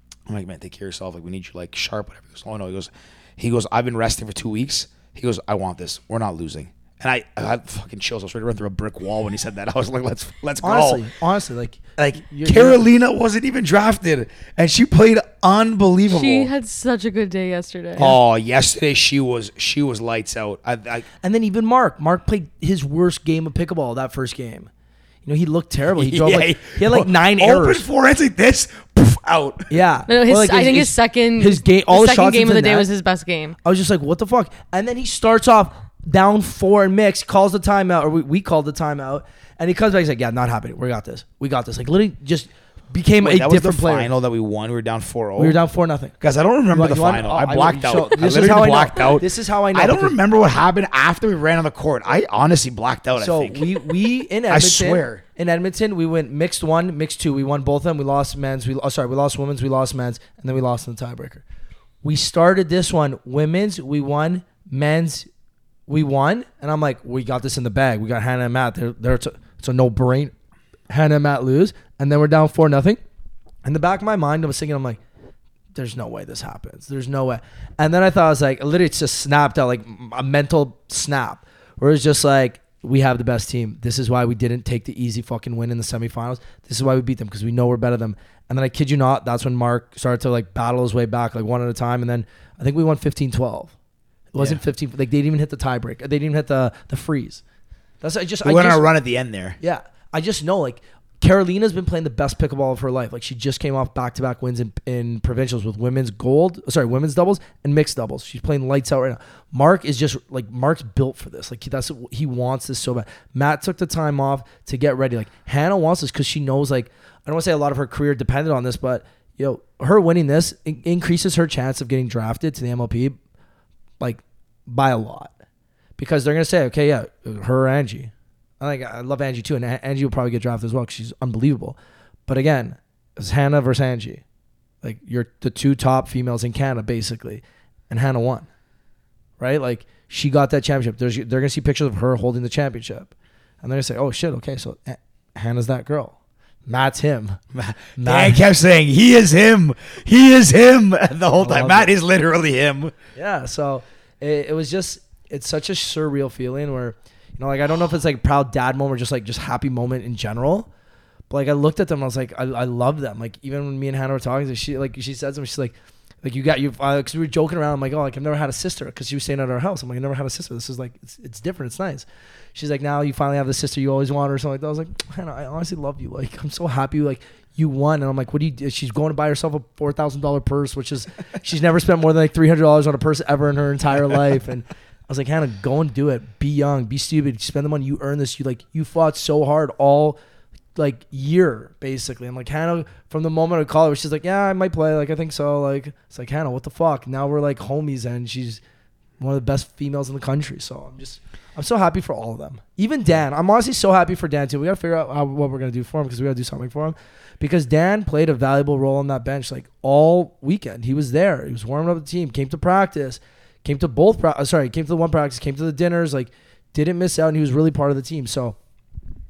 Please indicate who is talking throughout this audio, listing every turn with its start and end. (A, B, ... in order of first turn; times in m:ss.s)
0:00.3-0:11.0 A
0:10.6-0:12.8 B
0:12.0-0:16.5 A
0:16.1-0:18.2 C
0:18.0-0:21.1 A
0:21.2-0:24.7 B
0:25.2-0:27.9 B
0:26.0-0:29.8 A
0:29.7-0:32.9 B
0:30.1-0:33.6 C
0:33.6-0:44.1 B
0:43.2-0:45.6 A
0:45.4-0:46.2 B
0:46.2-0:53.7 A
0:46.7-0:50.2 B
0:53.2-1:01.4 B
0:54.5-0:55.2 A
1:02.0-1:05.3 B
1:05.9-1:10.3 B
1:10.9-1:13.0 B
1:13.6-1:15.0 B
1:15.8-1:33.7 B
1:34.3-1:37.4 B
1:34.4-1:34.6 A
1:38.0-1:38.9 B
1:38.4-1:39.6 A
1:39.6-2:03.2 B
2:04.0-2:05.3 B
2:06.0-2:14.2 B
2:14.8-2:18.5 B
2:19.4-2:23.1 B
2:23.6-2:26.2 B
2:26.7-2:27.4 B
2:27.5-2:33.0 A
2:28.0-2:28.4 B
2:31.4-2:31.9 B
2:33.2-2:40.7 B
2:41.3-3:10.2 B
3:10.8-3:18.6 B
3:19.2-3:38.6 B